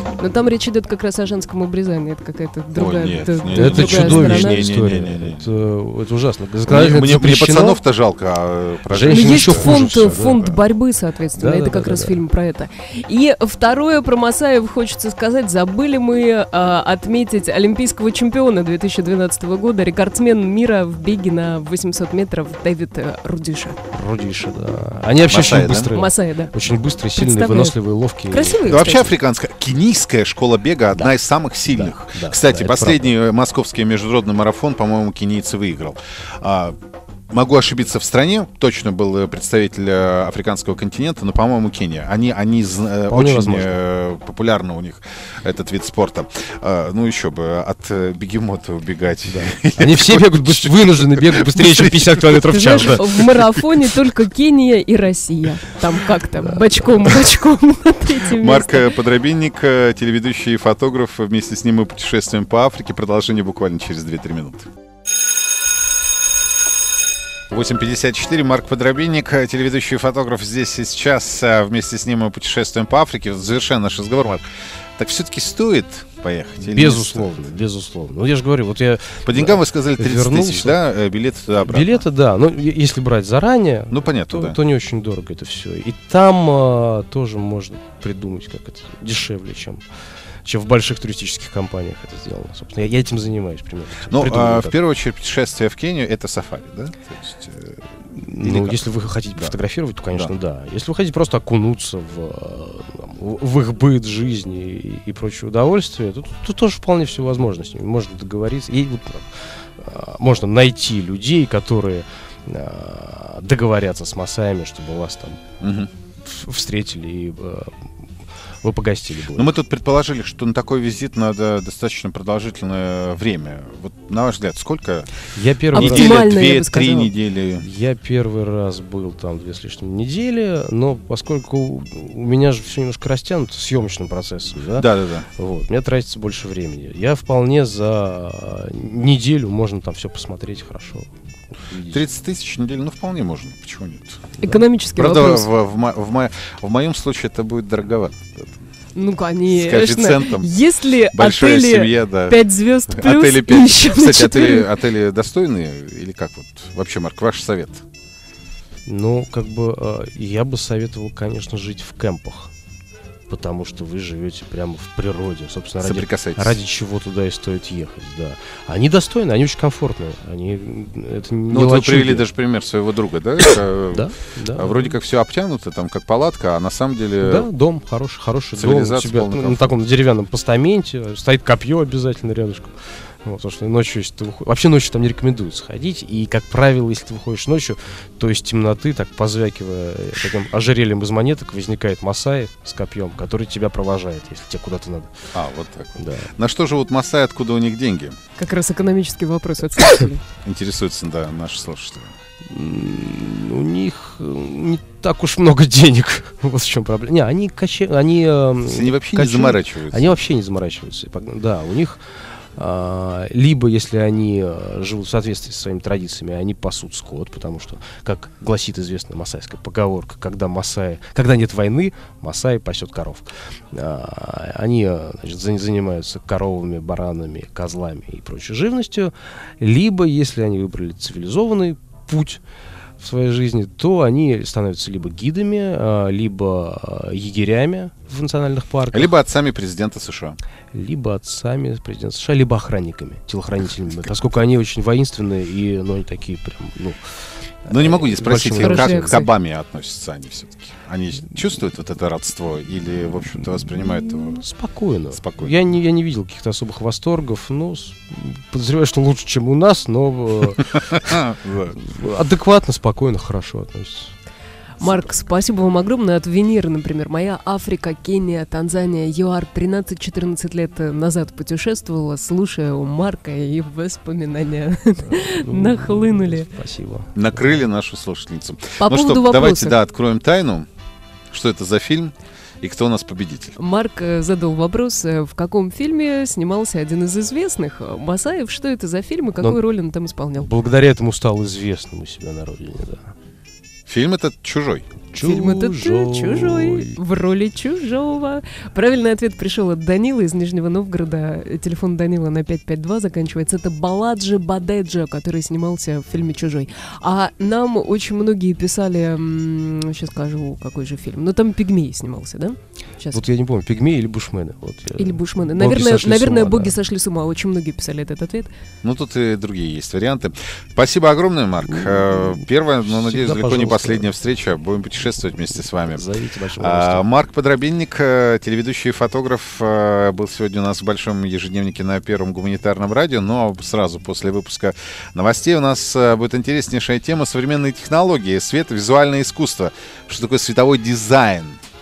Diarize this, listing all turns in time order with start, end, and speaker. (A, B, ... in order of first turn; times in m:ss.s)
0:00.1-0:04.7 A
0:02.7-0:05.5 B
0:03.5-0:07.8 C
0:06.7-0:10.6 B
0:08.9-0:10.4 C
0:09.0-0:23.8 A
0:11.4-0:12.2 C
0:23.9-0:28.8 C
0:25.2-0:25.9 B
0:25.9-0:26.5 A
0:27.2-0:27.8 A
0:28.3-0:29.1 A
0:28.7-0:36.8 B
0:31.7-0:33.1 C
0:37.3-0:52.5 B
0:43.1-0:43.8 C
0:49.3-0:53.2 C
0:52.5-0:58.9 A
0:53.2-0:53.6 B
0:56.4-0:57.0 C
0:58.4-1:04.7 B
1:07.5-1:17.4 B
1:16.6-1:20.8 C
1:19.2-1:22.0 B
1:21.7-1:29.8 C
1:23.9-1:24.6 B
1:30.4-1:34.7 C
1:34.1-1:37.8 B
1:38.2-1:55.4 C
1:38.4-1:38.8 B
1:55.6-1:55.9 B
1:56.2-1:57.8 C
1:58.6-1:59.5 C
1:59.3-2:05.1 B
2:05.3-2:06.2 C
2:05.7-2:07.6 B
2:05.7-2:07.1 A
2:07.6-2:22.0 C
2:14.7-2:15.3 B
2:21.9-2:24.4 B
2:24.4-2:25.5 A
2:25.0-2:28.6 B
2:29.0-2:34.7 A
2:29.5-2:30.5 B
2:31.1-2:37.8 B
2:38.9-2:42.5 C
2:43.3-2:52.2 C
2:45.8-2:46.6 B
2:51.5-2:57.5 B
2:53.9-2:54.8 C
2:57.2-3:15.3 C
2:58.6-2:59.8 B
3:15.3-3:18.2 B
3:16.0-3:16.3 C
3:18.4-3:20.2 A
3:20.4-3:22.1 B
3:22.4-3:32.0 C
3:28.6-3:30.2 B
3:32.6-3:52.4 C
3:53.0-3:59.1 C
3:58.9-4:00.4 B
4:00.7-4:07.1 C
4:07.6-4:09.2 C
4:07.7-4:14.4 B
4:08.6-4:09.3 A
4:14.2-4:24.1 C
4:15.1-4:15.6 B
4:21.0-4:21.8 B
4:24.8-4:36.5 A
4:35.0-4:37.3 C
4:37.1-4:40.7 B
4:38.8-4:39.8 A
4:41.3-4:43.6 B
4:43.6-4:50.5 A
4:50.4-4:53.1 C
4:53.9-4:54.9 B
4:55.1-4:57.0 C
4:55.2-5:13.2 A
5:13.1-5:16.7 C
5:15.0-5:18.5 A
5:18.8-5:26.0 B
5:21.6-5:24.1 C
5:25.6-5:27.0 C
5:26.6-5:41.6 B